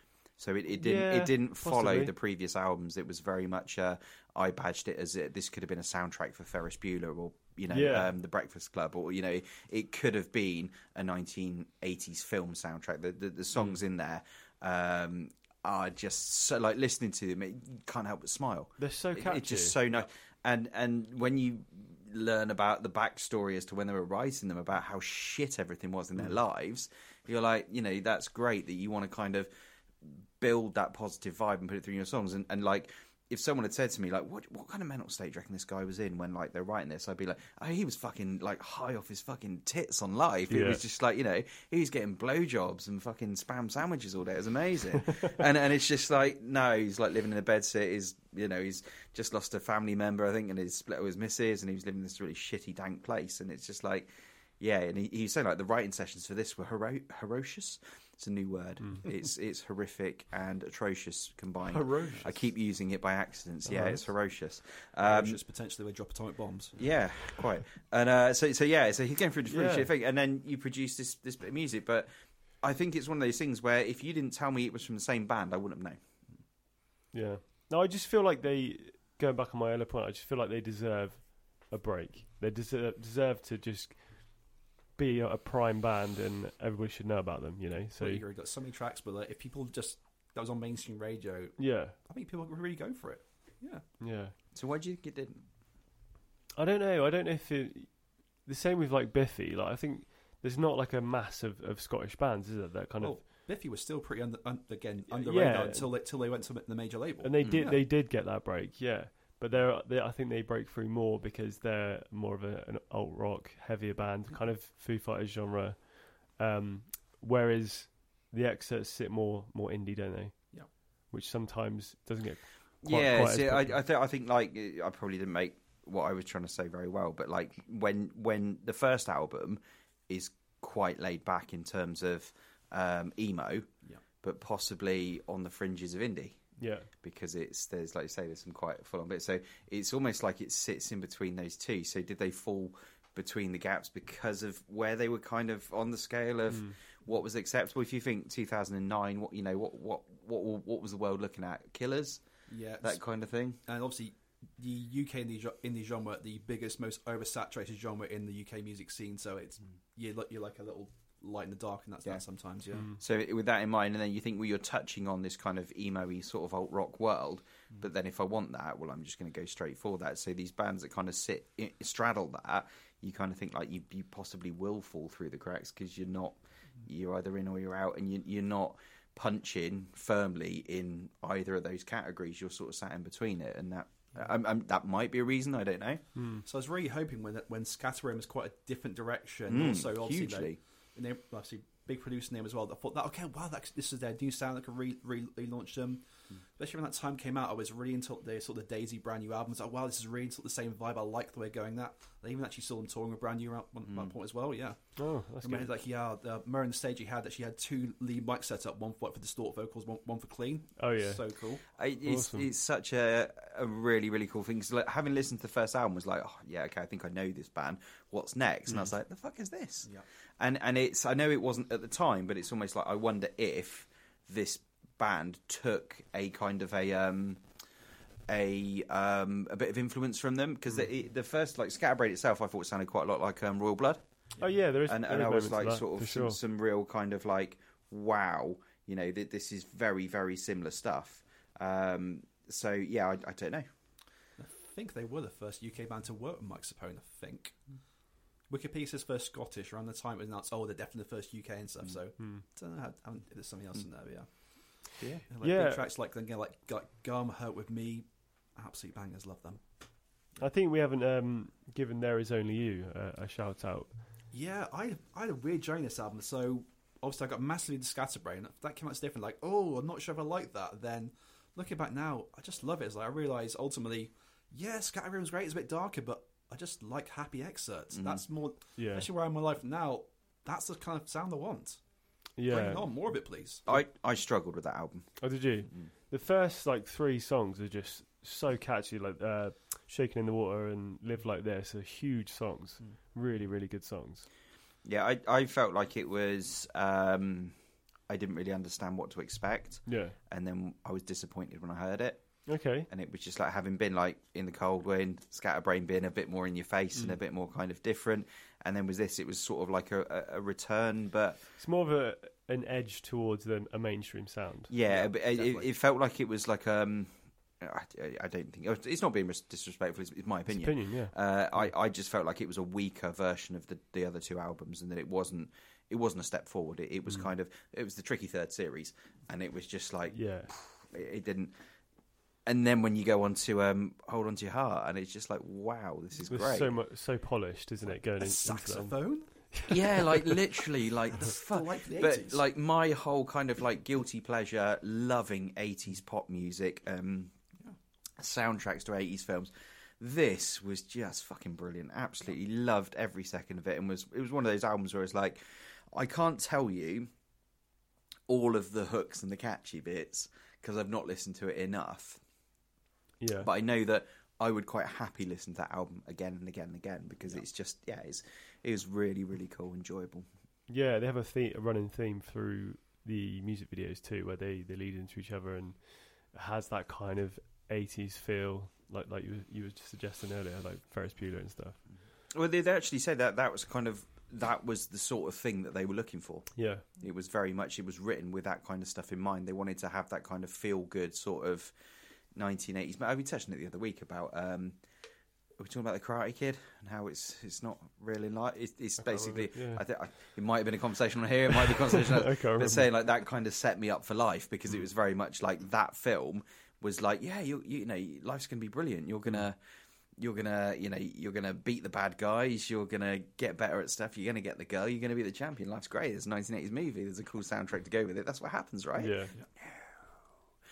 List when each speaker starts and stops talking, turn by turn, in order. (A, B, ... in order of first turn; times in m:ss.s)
0:00.4-0:29.5 A
0:00.7-0:02.1 B
0:07.7-0:08.1 B
0:18.8-0:19.8 B
0:30.0-1:05.4 A
0:40.5-0:40.8 B
1:01.7-1:02.1 B
1:02.0-1:02.4 C
1:03.6-1:04.0 B
1:05.0-1:06.8 C
1:06.8-1:12.1 A
1:09.5-1:09.9 B
1:12.6-1:16.0 A
1:17.1-1:28.2 B
1:28.0-1:33.8 C
1:31.6-1:31.9 B
1:34.0-1:34.3 B
1:34.5-1:35.4 A
1:36.6-1:43.2 B
1:43.0-1:47.8 C
1:45.1-1:45.9 B
1:47.2-2:03.8 B
1:47.4-1:47.7 A
2:02.8-2:13.7 A
2:14.2-2:16.4 A
2:16.6-2:16.9 B
2:17.0-2:32.2 A
2:26.5-2:26.7 B
2:32.5-2:33.0 C
2:32.8-2:33.6 A
2:33.6-2:42.9 C
2:43.0-3:06.0 A
3:06.1-3:06.4 B
3:06.4-3:16.0 C
3:09.5-3:10.6 A
3:16.6-3:31.6 C
3:25.0-3:25.7 B
3:30.8-3:31.2 B
3:31.8-3:47.4 A
3:32.0-3:32.5 B
3:48.3-3:54.0 A
3:54.4-3:56.4 B
3:54.8-4:03.7 A
4:04.4-4:07.6 C
4:08.5-4:19.6 C
4:12.2-4:12.4 B
4:15.4-4:15.8 B
4:20.4-4:23.9 B
4:24.3-4:41.8 C
4:37.9-4:38.2 A
4:38.8-4:39.1 B
4:42.4-4:42.9 B
4:42.4-4:43.7 C
4:43.7-4:45.2 A
4:45.2-4:54.3 B
4:54.8-4:57.5 A
4:58.1-5:11.4 A
4:59.8-5:00.1 B
5:02.4-5:02.9 B
5:11.6-5:14.7 B
5:14.7-5:31.5 A
5:14.8-5:15.7 C
5:20.5-5:21.1 B
5:30.1-5:30.5 B
5:32.4-5:36.7 A
5:36.3-5:39.0 B
5:37.8-5:39.3 C
5:39.5-5:40.3 B
5:39.7-5:47.3 A
5:41.2-5:42.4 C
5:48.2-5:57.1 A
5:58.3-6:02.2 A
6:03.2-6:03.5 B
6:03.4-6:10.2 A
6:10.7-6:21.8 B
6:22.3-6:31.7 A
6:26.5-6:26.8 B
6:32.3-6:34.8 A
6:35.6-6:49.6 A
6:39.0-6:39.8 B
6:41.7-6:42.9 B
6:50.2-7:00.0 A
6:59.0-6:59.3 B